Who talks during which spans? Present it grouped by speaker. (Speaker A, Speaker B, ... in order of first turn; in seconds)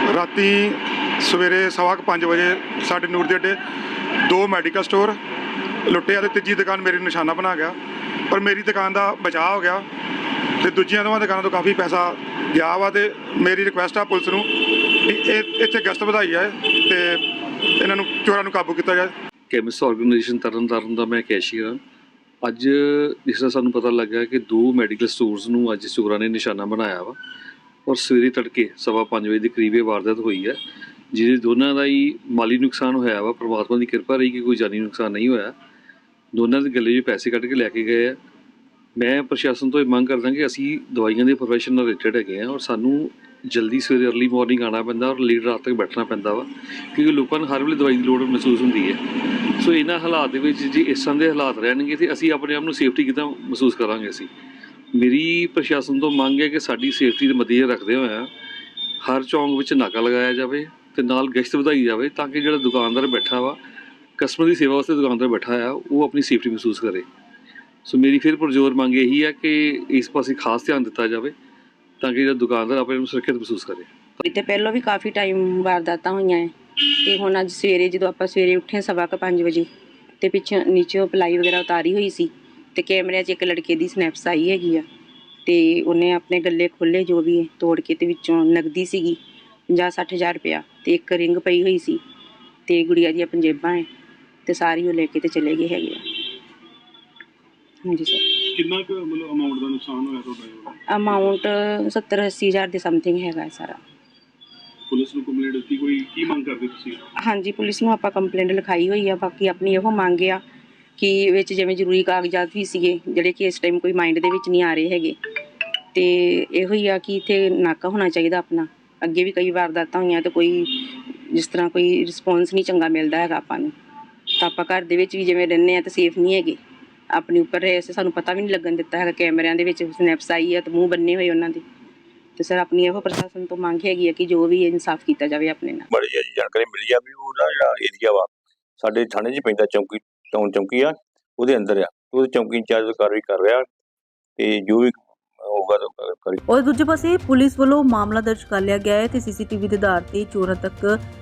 Speaker A: 0.1-3.6, 4.2-5.2, 5.8-7.8, 8.3-9.9, 10.6-17.2, 17.8-19.1
Speaker B: 19.5-21.8, 22.4-27.2, 27.9-30.6, 31.1-35.5, 36.3-38.2, 39.0-49.0, 49.6-54.3, 54.9-58.3, 59.0-63.6, 64.2-67.1, 67.8-71.3, 72.0-73.9
Speaker C: 74.2-79.7, 80.2-84.8, 85.5-92.0, 92.7-93.9, 94.5-96.0, 97.8-98.4, 100.9-103.8, 107.2-110.4, 111.0-115.2, 115.9-123.7, 124.3-126.6, 127.1-131.6, 132.4-135.9
Speaker D: 98.5-101.2, 104.9-107.0
Speaker E: 135.9-143.7, 144.4-146.4
Speaker F: 146.5-151.0